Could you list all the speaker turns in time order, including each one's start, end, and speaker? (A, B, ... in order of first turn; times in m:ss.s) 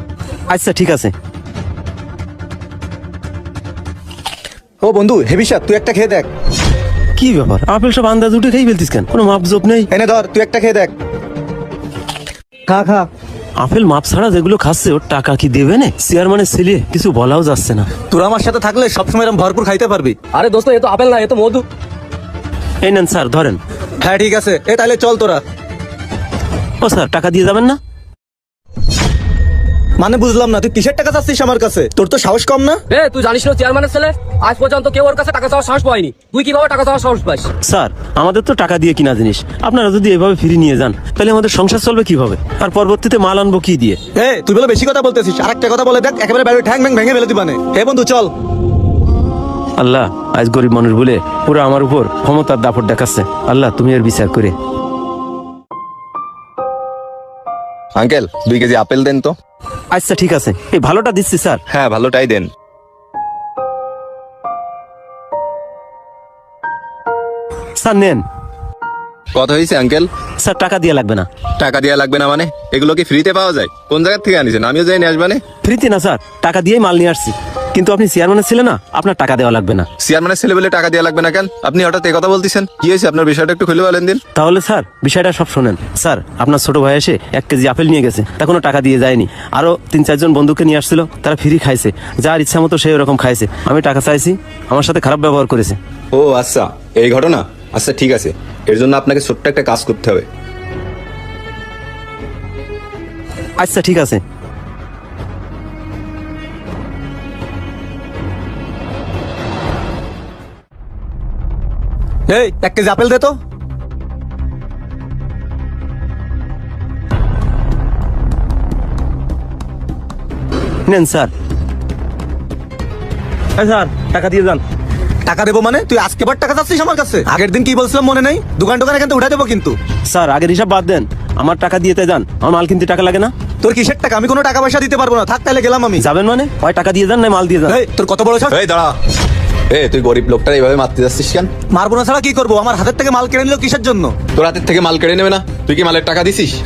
0:00.5-0:01.1 A
0:04.8-0:06.3 B
0:07.2-0:09.9 A
0:09.9-0:10.9 B
0:12.7-0:13.1 B
0:13.6-0:17.9 A
0:18.1-0:20.2 B
0:20.3-0:21.6 C
0:22.8-0:23.6 A
0:24.0-0:25.4 B
0:26.8-0:27.8 A
0:30.0-0:32.8 B
0:32.9-0:37.5 C
0:37.6-0:44.0 A
0:44.1-0:48.3 B
0:49.8-0:54.5 A
0:58.0-0:59.3 D
0:59.9-1:01.6 A
1:01.7-1:02.5 D
1:07.8-1:08.2 A
1:09.3-1:10.1 D
1:10.4-1:11.3 A
1:11.6-1:15.4 D
1:15.6-1:19.9 A
1:20.0-1:24.2 D
1:24.3-1:35.8 A
1:36.1-1:40.3 D
1:43.6-1:44.2 A
1:52.3-1:53.4 B
2:00.8-2:01.3 A
2:03.6-2:04.6 A
2:05.2-2:09.8 B
2:10.1-2:13.3 A
2:13.6-2:16.0 B
2:16.0-2:17.8 A
2:17.7-2:18.6 B
2:18.5-2:18.9 D
2:19.7-2:21.5 D
2:21.7-2:24.2 B
2:24.3-2:26.6 D